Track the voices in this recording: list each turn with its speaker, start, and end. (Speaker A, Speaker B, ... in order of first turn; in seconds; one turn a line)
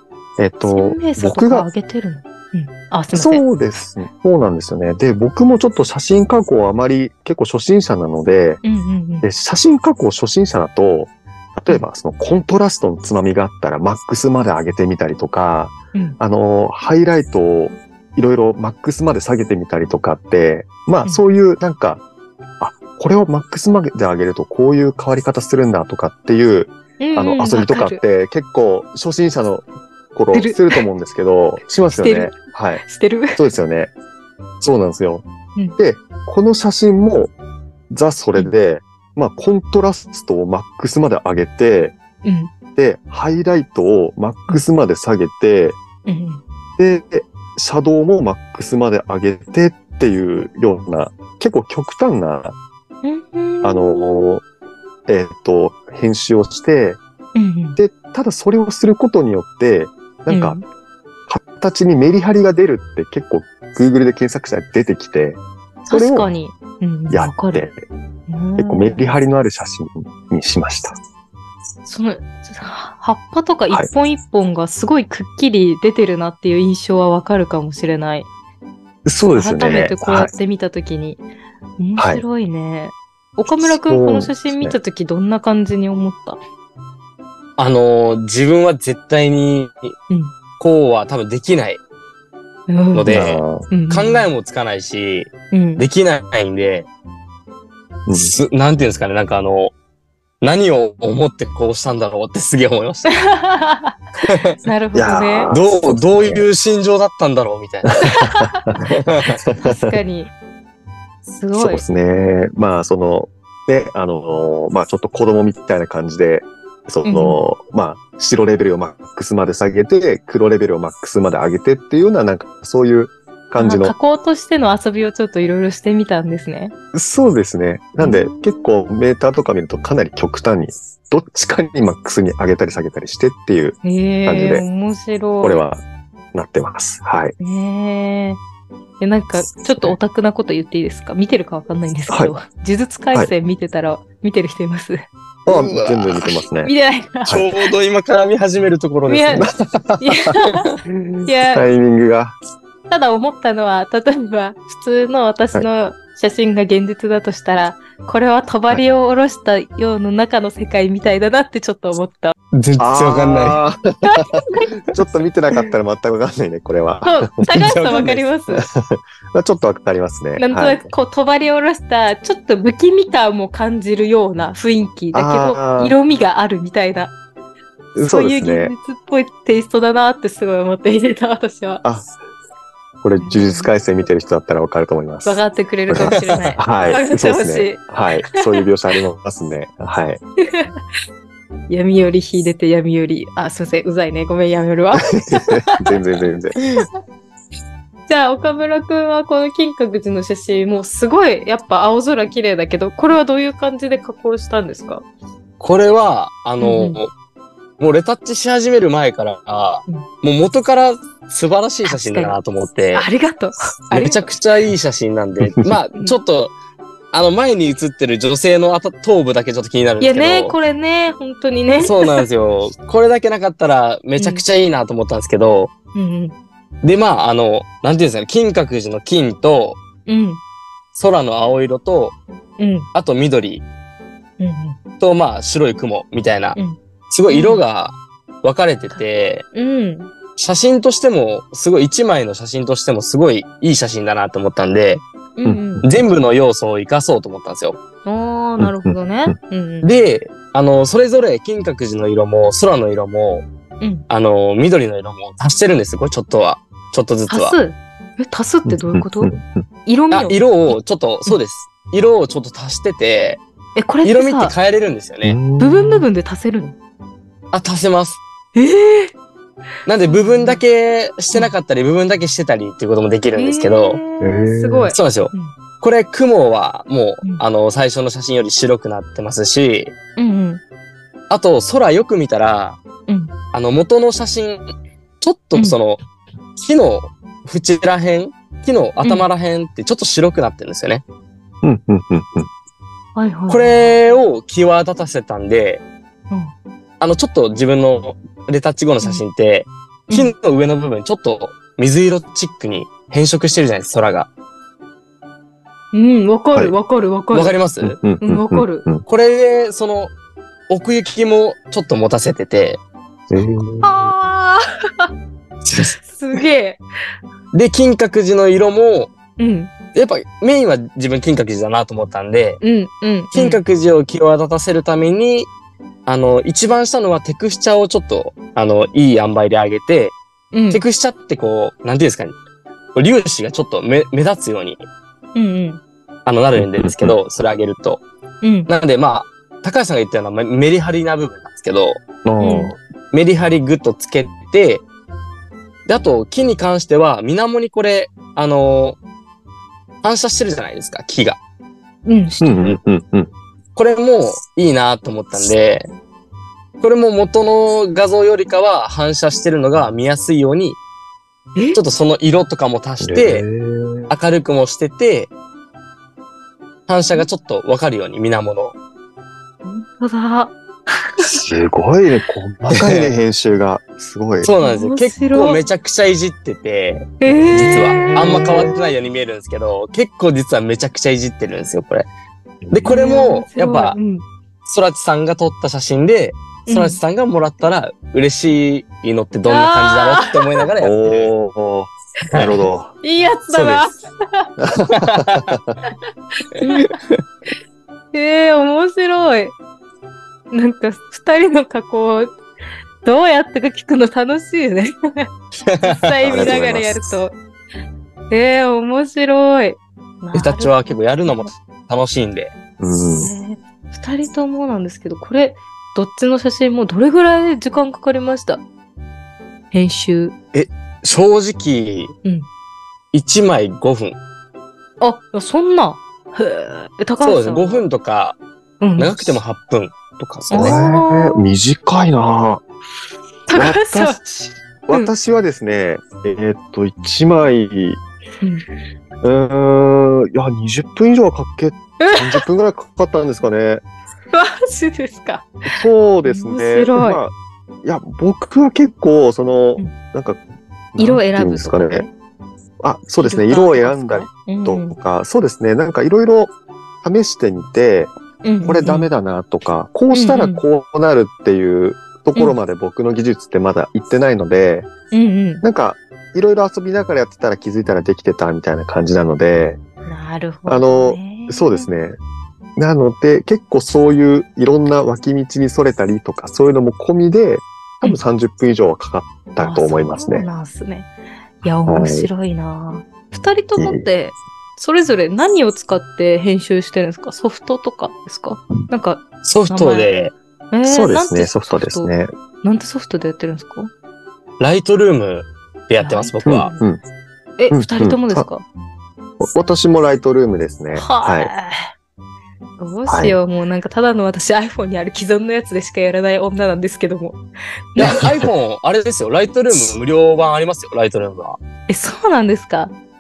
Speaker A: 0.4-1.7
Speaker B: 0.7-3.4
Speaker A: 3.1-8.6
Speaker B: 8.6-9.3
Speaker A: 9.2-22.0
Speaker A: 22.6-32.8
Speaker B: 27.0-28.0
Speaker B: 30.3-30.8
Speaker B: 31.9-33.4
Speaker A: 33.4-33.9
Speaker A: 34.6-35.2
Speaker A: 35.8-37.3
Speaker A: 37.9-42.0
Speaker B: 42.2-42.5
Speaker A: 42.8-45.8
Speaker B: 46.1-46.4
Speaker A: 46.8-52.6
Speaker B: 53.0-54.2
Speaker A: 53.6-54.5
Speaker A: 55.1-57.0
Speaker B: 57.4-57.8
Speaker A: 57.8-60.6
Speaker B: 60.3-60.6
Speaker A: 61.3-66.3
Speaker B: 65.9-67.7
Speaker A: 67.1-67.8
Speaker B: 68.3-69.1
Speaker A: 68.6-71.0
Speaker B: 71.8-78.3
Speaker A: 79.1-80.3
Speaker B: 79.3-81.2
Speaker B: 81.8-86.4
Speaker A: 82.0-82.2
Speaker A: 83.6-84.8
Speaker C: 87.6-90.0
Speaker C: 90.6-91.8
Speaker B: 92.7-94.3
Speaker C: 92.9-96.9
Speaker A: 93.1-93.7
Speaker B: 95.5-95.8
Speaker A: 98.1-98.3
Speaker C: 98.2-99.7
Speaker C: 100.4-103.2
Speaker B: 103.1-104.0
Speaker C: 104.2-104.6
Speaker B: 104.6-105.6
Speaker A: 104.9-106.5
Speaker C: 105.5-108.1
Speaker B: 108.0-108.7
Speaker A: 108.0-108.9
Speaker C: 108.9-109.4
Speaker A: 109.5-109.9
Speaker B: 109.6-110.3
Speaker B: 111.3-111.8
Speaker A: 111.5-124.0
Speaker B: 117.0-117.4
Speaker B: 123.6-126.7
Speaker A: 126.9-134.7
Speaker B: 128.0-128.7
Speaker B: 133.8-135.6
Speaker A: 135.4-135.8
Speaker A: 136.3-137.3
Speaker B: 137.4-138.4
Speaker B: 139.0-145.0
Speaker A: 142.1-142.3
Speaker C: 145.5-146.3
Speaker A: 145.5-146.7
Speaker B: 146.6-147.6
Speaker C: 147.3-149.5
Speaker B: 149.1-149.5
Speaker A: 149.4-150.2
Speaker B: 150.0-150.7
Speaker A: 150.9-152.4
Speaker B: 151.3-151.7
Speaker B: 152.9-162.3
Speaker C: 162.5-163.6
Speaker A: 162.8-167.7
Speaker B: 164.0-164.7
Speaker B: 167.0-168.7
Speaker C: 167.5-168.3
Speaker A: 168.6-170.9
Speaker B: 170.4-177.1
Speaker A: 175.1-176.0
Speaker A: 178.0-178.7
Speaker B: 178.0-181.8
Speaker A: 181.8-182.1
Speaker A: 183.0-190.2
Speaker B: 183.2-183.7
Speaker B: 185.2-187.8
Speaker B: 190.4-190.8
Speaker B: 191.7-195.6
Speaker A: 195.1-196.6
Speaker B: 198.1-205.0
Speaker C: 205.6-207.1
Speaker B: 206.6-207.0
Speaker C: 207.8-213.1
Speaker B: 211.9-212.4
Speaker B: 212.9-214.3
Speaker C: 213.9-216.5
Speaker C: 217.1-220.6
Speaker B: 220.0-222.3
Speaker C: 221.8-225.7
Speaker B: 224.2-224.4
Speaker B: 225.9-226.3
Speaker C: 226.8-229.8
Speaker B: 230.1-230.4
Speaker C: 230.9-232.2
Speaker B: 232.6-232.9
Speaker C: 232.9-233.7
Speaker B: 234.4-234.8
Speaker C: 235.0-236.6
Speaker B: 236.6-237.6
Speaker C: 237.1-239.5
Speaker B: 238.9-240.1
Speaker C: 240.4-245.0
Speaker B: 245.4-245.9
Speaker A: 245.4-246.0
Speaker C: 245.8-247.8
Speaker B: 248.1-249.9
Speaker A: 248.6-249.3
Speaker C: 249.8-253.5
Speaker C: 254.1-257.6
Speaker B: 257.3-261.4
Speaker A: 258.7-259.7
Speaker C: 260.1-263.4
Speaker B: 263.8-264.5
Speaker C: 264.0-265.4
Speaker A: 265.2-266.1
Speaker B: 265.6-266.8
Speaker C: 267.5-268.2
Speaker B: 268.6-269.1
Speaker C: 269.9-274.0
Speaker B: 270.1-270.6
Speaker B: 273.4-275.5
Speaker A: 274.2-274.9
Speaker C: 274.9-279.9
Speaker B: 280.2-280.6
Speaker C: 281.3-282.8
Speaker B: 283.1-283.3
Speaker C: 283.5-284.6
Speaker C: 285.2-286.0
Speaker C: 286.6-291.0
Speaker A: 291.6-292.5
Speaker B: 293.2-293.8
Speaker C: 293.5-295.8
Speaker C: 297.0-304.3
Speaker B: 305.9-307.6
Speaker C: 307.3-308.0
Speaker A: 307.8-309.0
Speaker B: 308.2-308.9
Speaker C: 309.1-310.1
Speaker C: 310.7-312.8
Speaker A: 313.3-314.0
Speaker B: 313.8-315.1
Speaker B: 316.0-316.8
Speaker C: 317.5-319.1
Speaker B: 319.4-319.7
Speaker C: 319.9-322.6
Speaker B: 322.6-323.6
Speaker C: 323.3-325.5
Speaker C: 326.1-330.1
Speaker B: 330.5-330.8
Speaker C: 330.7-332.4
Speaker C: 332.9-334.8
Speaker B: 335.4-335.8
Speaker C: 336.3-338.0
Speaker A: 336.6-337.1
Speaker B: 338.4-338.7
Speaker C: 338.7-342.0
Speaker A: 342.2-342.8
Speaker B: 342.4-342.7
Speaker C: 343.1-344.8
Speaker C: 345.9-349.0
Speaker C: 350.0-351.4
Speaker B: 352.1-352.8
Speaker A: 352.4-353.3
Speaker C: 353.8-355.9
Speaker C: 356.8-360.8
Speaker C: 361.7-363.4
Speaker A: 363.0-364.1
Speaker C: 364.1-365.3
Speaker C: 366.9-368.8
Speaker B: 369.6-371.4
Speaker A: 371.4-374.5
Speaker C: 372.7-373.1
Speaker C: 374.4-382.1
Speaker B: 374.6-375.6
Speaker B: 377.2-378.7
Speaker A: 378.1-378.7
Speaker A: 382.7-382.9
Speaker C: 382.7-384.0
Speaker B: 382.9-384.2
Speaker C: 384.7-391.3
Speaker B: 386.7-387.0
Speaker B: 389.5-390.7
Speaker A: 390.8-392.9
Speaker C: 392.3-392.6
Speaker B: 393.0-394.5
Speaker C: 393.5-393.9
Speaker A: 394.6-395.8
Speaker C: 394.9-395.6
Speaker B: 396.6-397.0
Speaker C: 396.8-397.2
Speaker B: 398.1-399.6
Speaker B: 400.5-402.4
Speaker B: 403.0-405.3
Speaker C: 405.6-406.3
Speaker B: 405.8-407.4
Speaker A: 406.3-407.0
Speaker B: 408.3-410.8
Speaker C: 410.3-412.5
Speaker A: 412.8-413.3
Speaker B: 413.2-418.6
Speaker B: 419.7-420.3
Speaker C: 420.5-422.1
Speaker C: 423.1-424.2
Speaker B: 425.0-427.8
Speaker C: 427.2-428.4
Speaker B: 428.8-429.4
Speaker C: 429.0-430.8
Speaker B: 430.5-431.5
Speaker A: 430.5-432.6
Speaker B: 433.5-434.2
Speaker A: 433.5-438.0
Speaker A: 439.2-443.8
Speaker B: 442.0-442.4
Speaker B: 444.3-445.5
Speaker A: 445.7-450.4
Speaker B: 446.2-447.2
Speaker A: 450.9-452.1
Speaker B: 451.0-452.1
Speaker A: 452.8-458.1
Speaker B: 453.2-455.0
Speaker B: 458.4-459.1
Speaker A: 458.6-464.9
Speaker B: 460.1-460.6
Speaker B: 465.1-465.6
Speaker A: 465.6-469.8
Speaker B: 470.1-471.9
Speaker A: 470.7-472.2
Speaker A: 472.8-480.5
Speaker B: 479.6-481.1
Speaker B: 481.6-490.1
Speaker A: 481.9-482.3
Speaker A: 483.8-484.1
Speaker C: 489.4-490.3
Speaker B: 490.7-493.9
Speaker A: 490.9-492.3
Speaker C: 494.6-496.7
Speaker B: 496.0-496.9
Speaker A: 496.5-497.0
Speaker B: 497.6-498.6
Speaker A: 497.7-498.5
Speaker A: 499.4-501.5
Speaker B: 500.9-501.9
Speaker B: 502.8-507.4
Speaker A: 503.1-503.4
Speaker B: 507.9-508.3
Speaker C: 508.0-511.6
Speaker B: 511.9-512.9